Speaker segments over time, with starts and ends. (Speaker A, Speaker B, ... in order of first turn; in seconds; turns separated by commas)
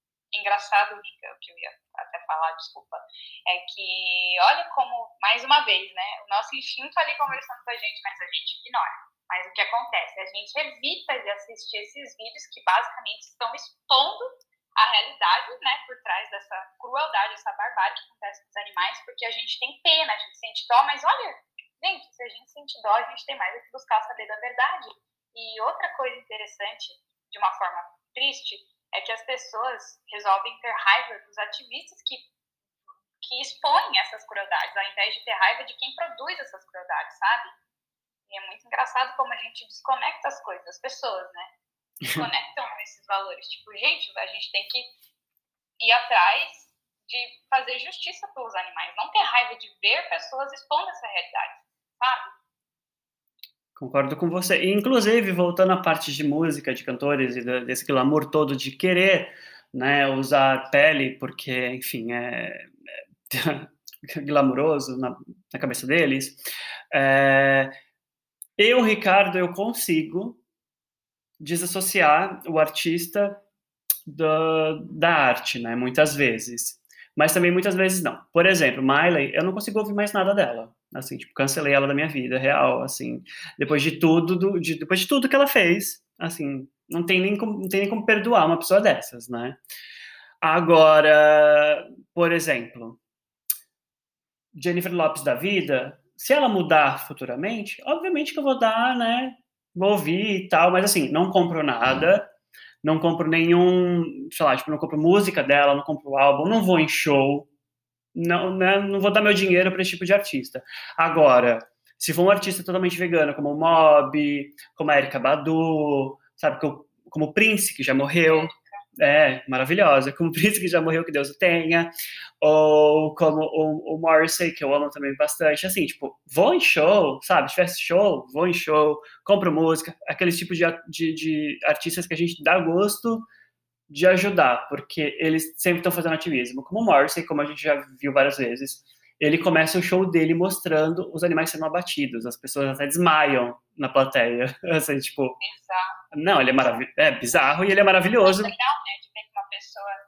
Speaker A: 0.3-32.2, Speaker A: 33.2-37.5, Speaker A: 38.3-41.5, Speaker A: 42.1-44.9, Speaker A: 45.8-52.3, Speaker B: 53.8-62.7, Speaker B: 63.3-67.7, Speaker B: 68.6-70.4, Speaker B: 71.4-73.4, Speaker B: 74.0-89.6, Speaker B: 90.4-93.0, Speaker B: 94.5-102.3, Speaker B: 102.8-107.5, Speaker B: 108.1-133.3, Speaker A: 118.3-118.8, Speaker B: 133.9-145.4, Speaker A: 145.4-146.0, Speaker B: 146.1-148.5, Speaker A: 148.2-149.9